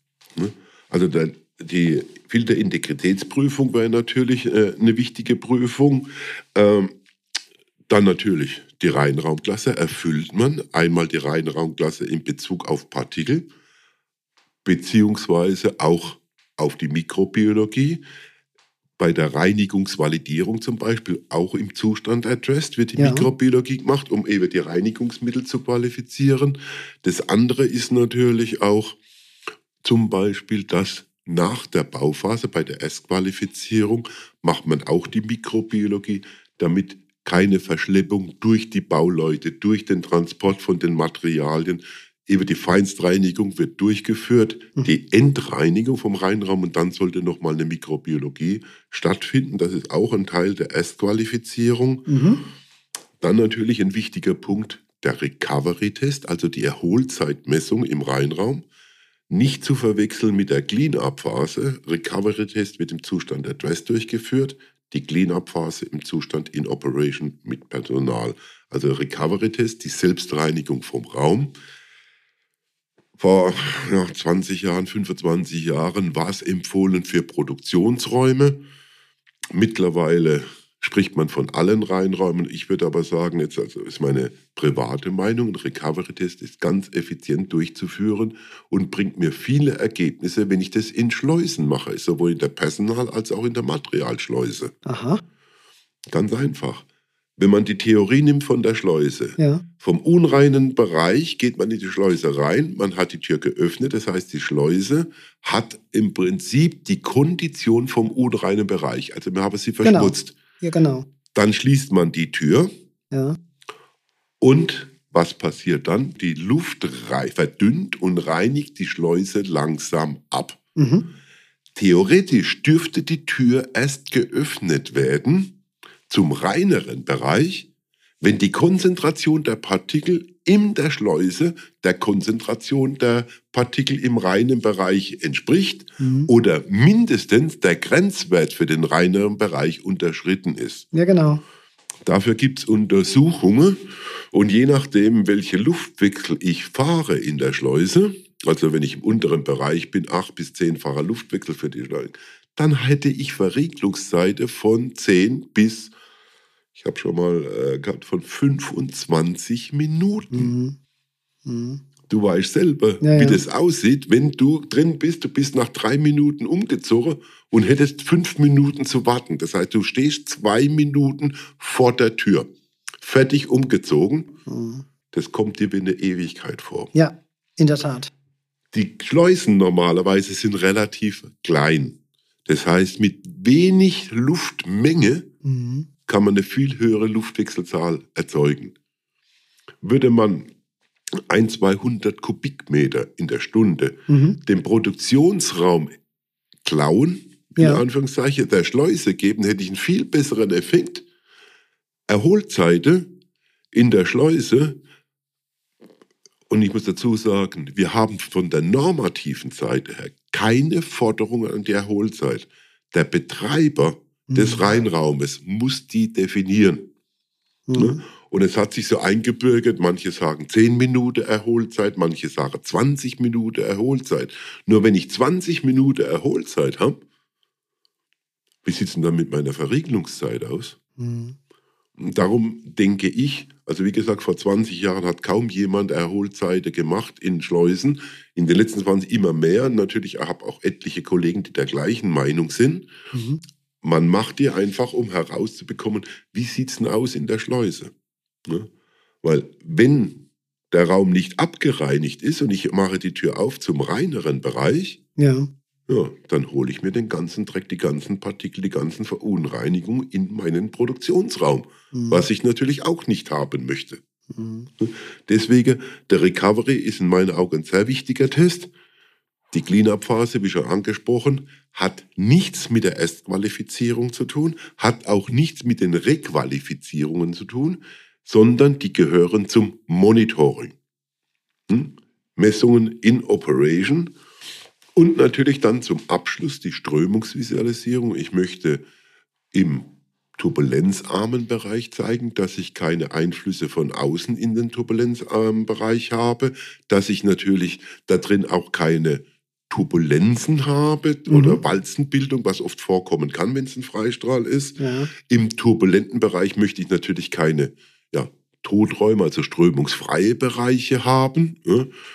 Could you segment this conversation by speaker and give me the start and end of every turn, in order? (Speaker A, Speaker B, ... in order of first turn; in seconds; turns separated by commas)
Speaker A: 0.3-7.0, Speaker A: 7.9-13.5, Speaker A: 14.6-18.0, Speaker A: 19.0-29.0, Speaker B: 23.0-23.3, Speaker A: 29.8-52.1, Speaker B: 52.1-52.4, Speaker A: 53.2-58.6, Speaker A: 59.3-71.5, Speaker A: 73.2-78.6, Speaker A: 79.5-94.7, Speaker B: 94.8-95.2, Speaker A: 96.1-96.8, Speaker A: 97.4-110.3, Speaker B: 99.4-99.6, Speaker B: 109.8-111.1, Speaker A: 111.3-112.7, Speaker B: 113.1-113.4, Speaker A: 114.4-120.6, Speaker B: 120.8-121.1, Speaker A: 121.7-125.5, Speaker A: 126.1-127.7, Speaker A: 128.2-140.8, Speaker B: 136.0-136.3, Speaker B: 140.9-141.4, Speaker A: 142.0-155.9, Speaker A: 156.8-160.5, Speaker B: 160.3-160.8, Speaker B: 161.4-161.8, Speaker A: 162.1-172.5, Speaker B: 163.0-163.4, Speaker A: 173.0-174.3, Speaker B: 174.4-174.8, Speaker A: 175.1-176.9, Speaker B: 176.9-178.1, Speaker A: 178.7-185.3, Speaker B: 185.4-185.9, Speaker A: 186.1-188.7, Speaker A: 189.8-190.5, Speaker A: 191.3-195.9, Speaker B: 194.1-194.4, Speaker A: 196.6-201.0, Speaker B: 197.6-197.8, Speaker A: 202.1-203.1, Speaker A: 203.7-204.8, Speaker A: 206.5-216.9, Speaker B: 214.3-214.7, Speaker B: 217.7-218.0, Speaker A: 217.8-227.0, Speaker A: 228.6-230.8, Speaker B: 231.0-231.4, Speaker A: 232.0-242.9, Speaker B: 243.1-243.4, Speaker A: 243.8-247.9, Speaker A: 249.2-255.0, Speaker B: 255.2-255.5, Speaker A: 255.9-264.0, Speaker B: 261.9-262.2, Speaker B: 264.3-264.7, Speaker A: 264.8-268.7, Speaker A: 269.5-280.7, Speaker A: 281.7-284.1, Speaker A: 284.9-288.8, Speaker A: 289.5-311.9, Speaker B: 301.3-301.6, Speaker B: 304.8-305.1